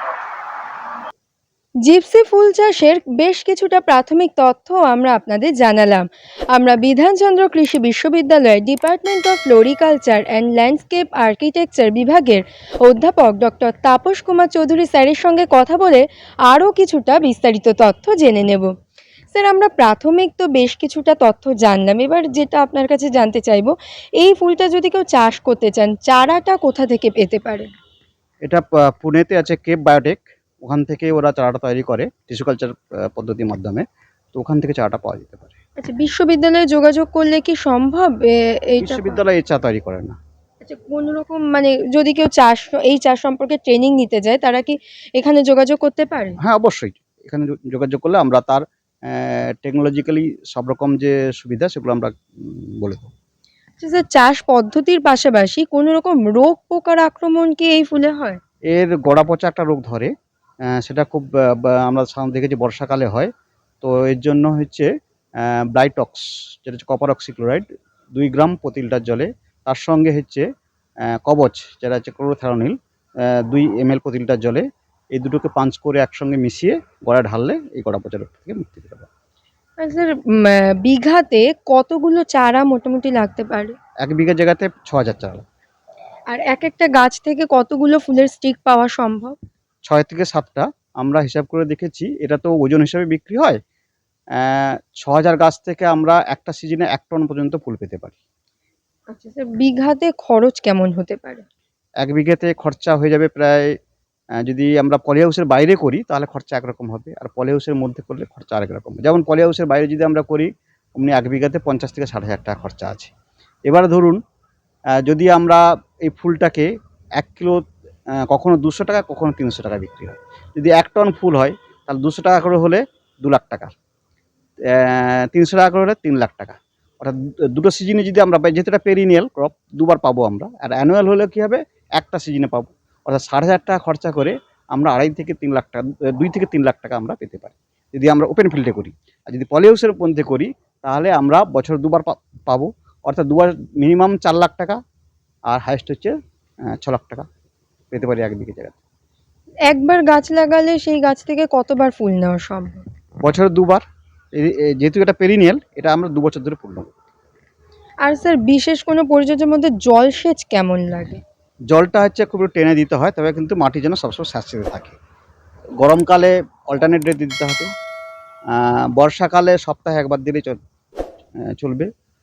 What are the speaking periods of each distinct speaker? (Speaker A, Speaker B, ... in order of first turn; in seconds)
Speaker A: 1.8-18.7, 19.3-27.7, 35.8-39.2, 40.6-46.4, 53.8-58.4, 79.8-83.7, 86.3-89.4, 99.1-101.5, 149.7-152.8, 158.0-161.2
Speaker B: 28.4-35.5, 38.8-40.2, 46.4-53.1, 58.7-60.1, 60.7-63.3, 63.8-64.9, 65.4-70.5, 71.2-79.1, 84.0-85.5, 89.8-93.6, 94.4-98.2, 102.0-103.7, 104.4-113.1, 113.7-114.2, 115.0-117.6, 118.3-123.7, 124.7-144.8, 145.5-146.2, 146.7-147.3, 147.9-148.8, 153.2-156.9, 161.7-165.0, 165.8-167.7, 168.5-170.6, 171.5-171.9